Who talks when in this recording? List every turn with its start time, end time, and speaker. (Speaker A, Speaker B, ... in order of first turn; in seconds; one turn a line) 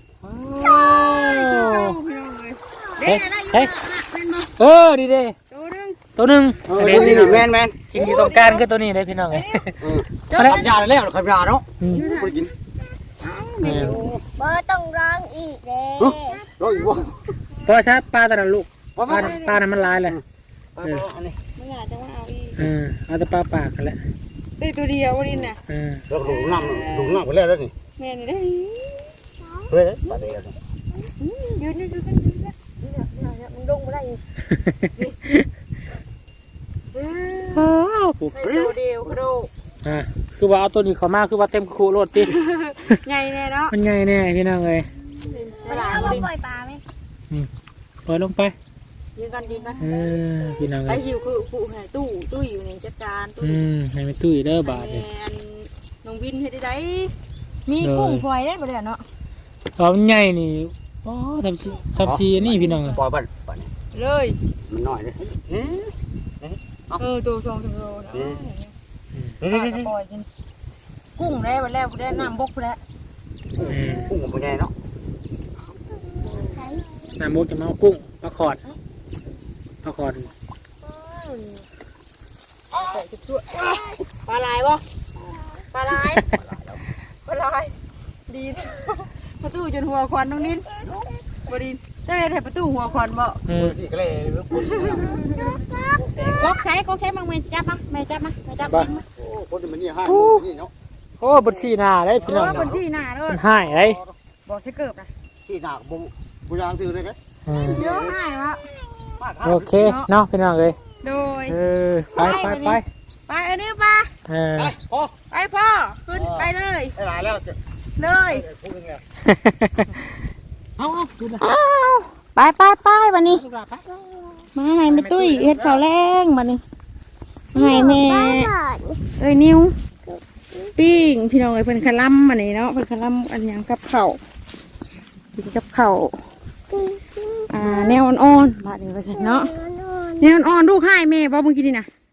Speaker A: 0.2-2.0
Speaker B: 0.5-4.5
Speaker A: 3.0-3.7
Speaker A: 4.6-5.3
Speaker B: 5.5-6.0
Speaker A: 6.2-9.8
Speaker C: 6.7-7.8
Speaker B: 7.9-8.6
Speaker B: 9.3-9.7
Speaker C: 9.8-12.5
Speaker B: 10.3-10.8
Speaker A: 10.3-10.6
Speaker B: 11.9-12.5
Speaker B: 13.2-14.1
Speaker A: 13.6-14.0
Speaker C: 13.7-14.2
Speaker D: 13.7-16.4
Speaker C: 16.0-17.2
Speaker A: 17.6-20.2
Speaker C: 19.0-19.4
Speaker B: 19.1-19.6
Speaker C: 20.8-21.4
Speaker B: 21.6-22.6
Speaker A: 22.6-24.0
Speaker B: 24.6-25.6
Speaker A: 25.7-26.0
Speaker C: 26.1-27.7
Speaker B: 26.2-27.2
Speaker B: 28.0-29.1
Speaker C: 29.7-30.6
Speaker B: 31.2-34.2
Speaker A: 34.5-35.5
Speaker B: 36.9-37.7
Speaker A: 37.5-38.3
Speaker B: 38.3-39.5
Speaker C: 38.4-38.7
Speaker A: 39.8-42.4
Speaker B: 42.2-43.8
Speaker A: 43.7-44.9
Speaker B: 45.2-46.3
Speaker D: 45.2-46.8
Speaker A: 45.9-46.3
Speaker A: 48.1-48.5
Speaker B: 49.2-49.9
Speaker A: 49.8-51.0
Speaker B: 50.9-53.6
Speaker A: 53.4-55.0
Speaker B: 54.6-57.1
Speaker B: 57.7-59.0
Speaker A: 57.8-58.2
Speaker A: 59.8-63.0
Speaker C: 62.0-63.7
Speaker B: 63.9-64.4
Speaker C: 64.7-67.0
Speaker B: 67.0-68.7
Speaker C: 68.1-68.4
Speaker C: 69.4-69.9
Speaker B: 69.5-70.3
Speaker B: 71.2-72.8
Speaker C: 73.6-74.7
Speaker A: 73.6-74.1
Speaker D: 76.2-76.8
Speaker B: 76.3-76.8
Speaker A: 77.2-78.6
Speaker A: 79.8-80.3
Speaker B: 80.9-81.6
Speaker B: 82.8-84.8
Speaker B: 85.7-86.4
Speaker C: 86.4-86.7
Speaker B: 87.2-87.8
Speaker B: 88.3-90.7
Speaker D: 90.7-91.1
Speaker B: 91.4-93.4
Speaker A: 93.5-93.8
Speaker C: 93.5-95.2
Speaker B: 94.6-99.0
Speaker D: 94.8-96.0
Speaker C: 96.0-96.4
Speaker C: 99.1-100.7
Speaker A: 100.1-100.4
Speaker A: 101.2-102.7
Speaker C: 102.2-102.8
Speaker B: 102.2-103.4
Speaker A: 103.3-104.0
Speaker C: 103.8-104.2
Speaker B: 104.5-105.1
Speaker C: 105.5-108.2
Speaker A: 107.5-107.8
Speaker B: 107.7-108.6
Speaker C: 109.2-110.0
Speaker A: 109.4-110.8
Speaker B: 109.8-110.1
Speaker B: 111.0-111.6
Speaker A: 111.5-112.8
Speaker B: 112.1-114.1
Speaker A: 114.3-114.7
Speaker C: 114.6-115.2
Speaker B: 115.3-117.0
Speaker C: 116.1-117.6
Speaker B: 118.0-118.5
Speaker C: 118.3-119.0
Speaker A: 119.2-120.0
Speaker A: 120.8-121.4
Speaker B: 121.4-123.4
Speaker A: 123.3-123.8
Speaker D: 123.9-124.4
Speaker B: 124.5-126.6
Speaker A: 124.9-125.8
Speaker B: 127.5-128.5
Speaker D: 127.5-129.0
Speaker B: 129.2-129.7
Speaker D: 130.1-130.7
Speaker B: 130.8-134.2
Speaker B: 135.4-136.2
Speaker D: 136.7-138.0
Speaker B: 137.5-139.5
Speaker D: 139.1-140.3
Speaker B: 140.2-141.9